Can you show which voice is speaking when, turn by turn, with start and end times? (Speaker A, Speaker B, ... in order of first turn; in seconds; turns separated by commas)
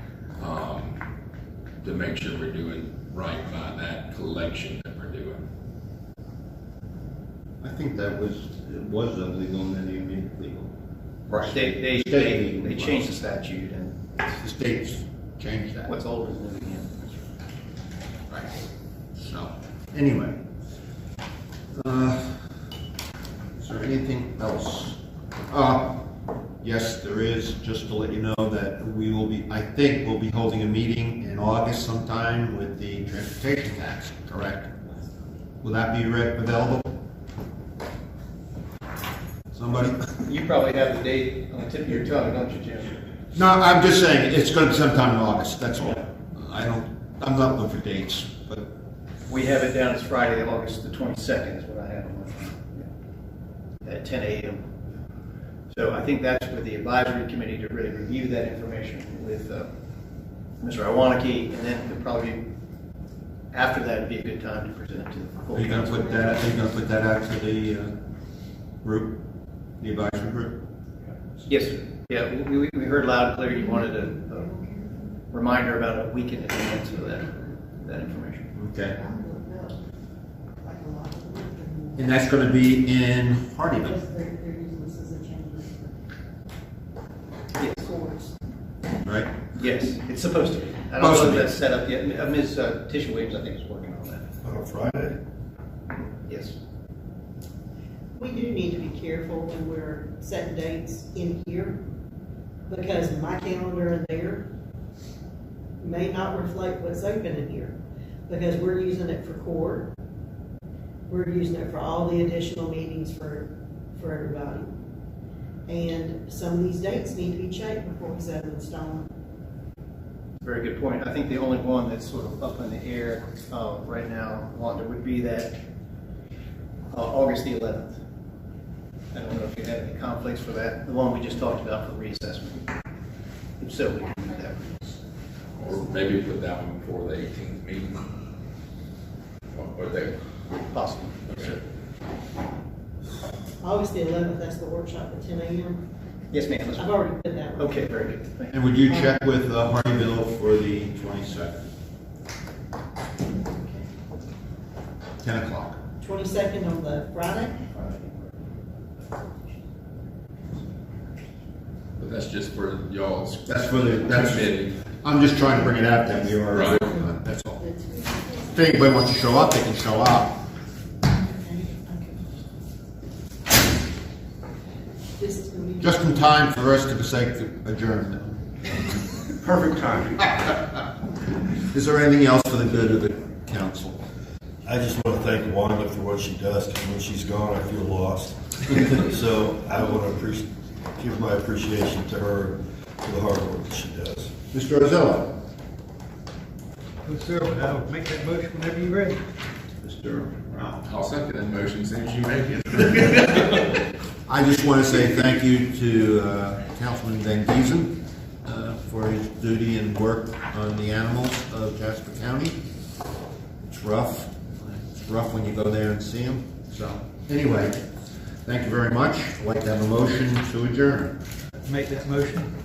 Speaker A: 0.4-1.0, Speaker A: 1.8-5.4, Speaker B: 7.6-10.7, Speaker C: 11.3-14.0, Speaker B: 11.4-13.1, Speaker B: 14.4-15.9, Speaker C: 15.9-17.2, Speaker B: 18.3-18.6, Speaker B: 19.1-20.4, Speaker B: 21.7-22.6, Speaker B: 23.5-34.8, Speaker B: 35.6-36.9, Speaker B: 39.5-40.0, Speaker C: 40.2-43.0, Speaker B: 43.3-48.7, Speaker C: 49.3-52.9, Speaker C: 53.8-54.6, Speaker C: 55.7-59.7, Speaker C: 60.6-62.4, Speaker C: 63.5-66.3, Speaker B: 65.5-67.9, Speaker B: 68.8-69.2, Speaker B: 69.8-70.6, Speaker C: 71.5-74.5, Speaker D: 73.5-75.1, Speaker C: 75.3-78.5, Speaker D: 76.6-77.6, Speaker B: 78.5-79.0, Speaker D: 78.8-79.8, Speaker D: 80.6-82.1, Speaker B: 82.0-84.0, Speaker D: 83.8-86.0, Speaker C: 87.6-87.8, Speaker D: 87.7-88.3, Speaker B: 89.0-89.3, Speaker C: 89.5-94.3, Speaker B: 91.0-91.5, Speaker E: 94.4-95.2, Speaker C: 96.2-96.5, Speaker D: 98.2-101.8, Speaker D: 102.7-104.5, Speaker D: 105.8-109.9, Speaker D: 111.1-114.7, Speaker D: 115.7-119.1, Speaker C: 120.4-125.5, Speaker C: 126.9-128.0, Speaker C: 129.1-132.7, Speaker C: 133.6-134.9, Speaker A: 135.5-138.0, Speaker A: 139.5-140.1, Speaker C: 140.7-141.6, Speaker A: 141.3-141.5, Speaker D: 143.6-145.9, Speaker C: 146.3-146.9, Speaker D: 146.7-147.8, Speaker C: 147.6-148.6, Speaker B: 148.5-151.6, Speaker D: 153.5-153.8, Speaker B: 155.2-155.8, Speaker D: 156.0-157.8, Speaker A: 162.0-164.8, Speaker B: 163.4-167.6, Speaker D: 166.4-166.9, Speaker A: 166.5-166.9, Speaker D: 167.6-168.5, Speaker B: 168.5-170.4, Speaker D: 171.1-172.2, Speaker D: 175.2-176.2, Speaker B: 175.8-178.5, Speaker E: 179.4-180.3, Speaker B: 181.6-184.0, Speaker E: 184.6-194.3, Speaker B: 194.5-195.4, Speaker F: 197.0-199.2, Speaker B: 199.8-200.8, Speaker A: 200.8-203.7, Speaker B: 204.2-212.6, Speaker B: 213.6-217.8, Speaker B: 218.4-221.1, Speaker F: 221.6-222.5